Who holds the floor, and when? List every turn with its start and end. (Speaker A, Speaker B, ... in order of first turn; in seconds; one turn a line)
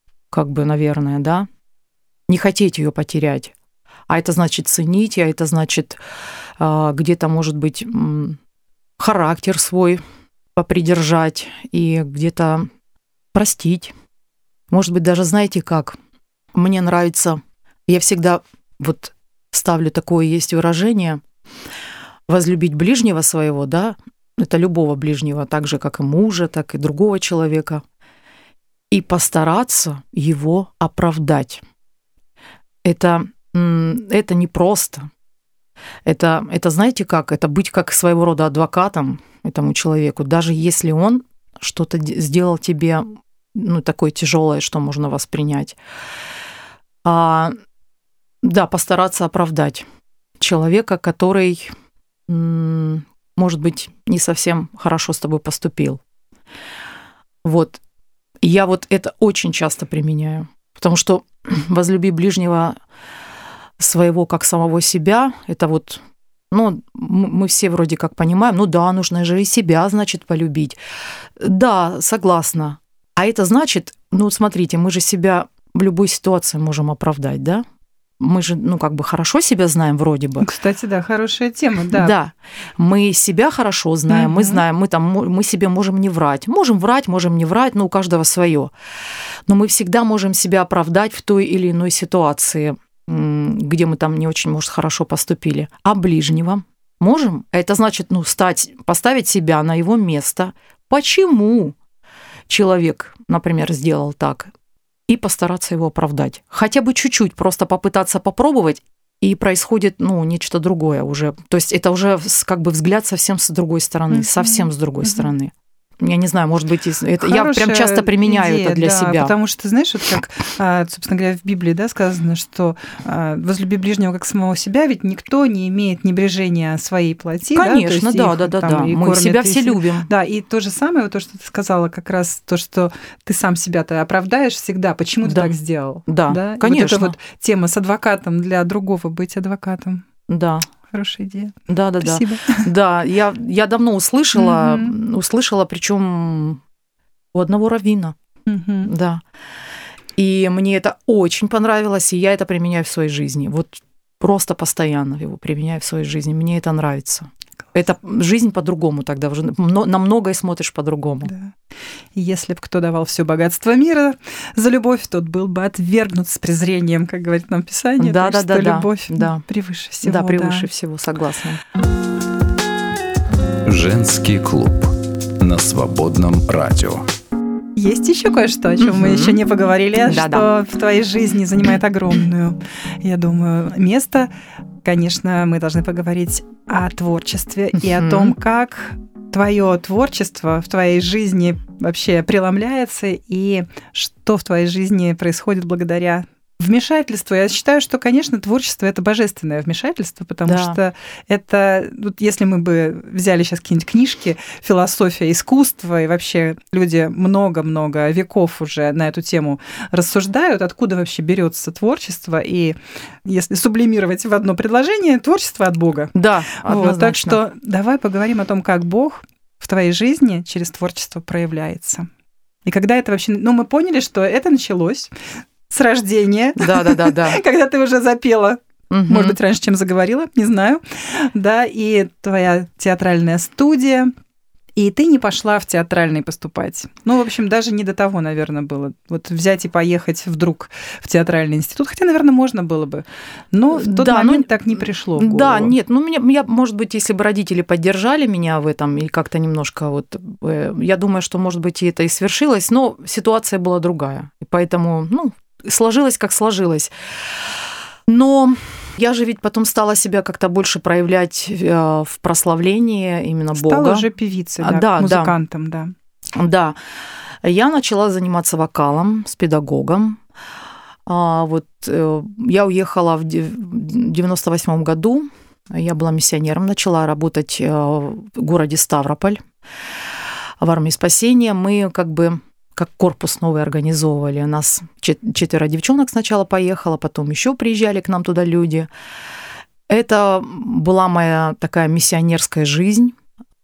Speaker A: 0.3-1.5
Speaker A: 2.3-3.5
Speaker A: 4.1-6.0
Speaker A: 6.6-8.4
Speaker A: 9.0-10.0
Speaker A: 10.6-12.7
Speaker A: 13.3-13.9
Speaker A: 14.7-16.0
Speaker A: 16.5-21.2
Speaker A: 22.3-27.8
Speaker A: 28.9-31.6
Speaker A: 32.9-35.1
Speaker A: 36.1-45.8
Speaker A: 47.0-47.6
Speaker A: 48.4-49.9
Speaker A: 50.4-51.7
Speaker A: 52.3-56.0
Speaker A: 57.4-57.8
Speaker A: 58.4-62.8
Speaker A: 63.8-70.8
Speaker A: 71.4-77.7
Speaker A: 78.2-80.5
Speaker B: 80.4-82.1
Speaker A: 81.9-88.7
Speaker B: 84.1-84.6
Speaker A: 89.5-101.8
Speaker A: 102.5-104.5
Speaker A: 105.1-119.3
Speaker B: 114.1-115.3
Speaker B: 117.2-140.1
Speaker A: 127.5-130.1
Speaker A: 135.2-135.5
Speaker A: 136.1-137.2
Speaker A: 140.3-140.7
Speaker B: 140.9-142.7
Speaker A: 141.7-146.6
Speaker B: 144.3-144.9
Speaker A: 147.3-148.2
Speaker B: 148.5-148.9
Speaker A: 148.8-149.2
Speaker A: 150.2-161.3
Speaker B: 161.3-161.5
Speaker B: 162.1-170.7
Speaker A: 168.0-169.4
Speaker A: 170.0-171.6
Speaker C: 173.7-177.0
Speaker B: 177.8-184.3
Speaker A: 178.8-179.4
Speaker A: 180.1-180.5
Speaker B: 184.8-222.1
Speaker A: 187.8-188.3
Speaker A: 200.5-200.8
Speaker A: 216.2-217.4
Speaker B: 222.7-225.1
Speaker B: 225.7-234.1
Speaker A: 226.6-227.4
Speaker A: 228.9-229.4
Speaker B: 234.8-245.8
Speaker A: 243.7-256.9
Speaker A: 258.1-264.1
Speaker B: 263.6-265.9
Speaker A: 264.6-265.3
Speaker A: 266.4-266.8
Speaker A: 267.4-270.2
Speaker A: 271.1-279.4
Speaker A: 280.6-288.9
Speaker A: 289.9-293.1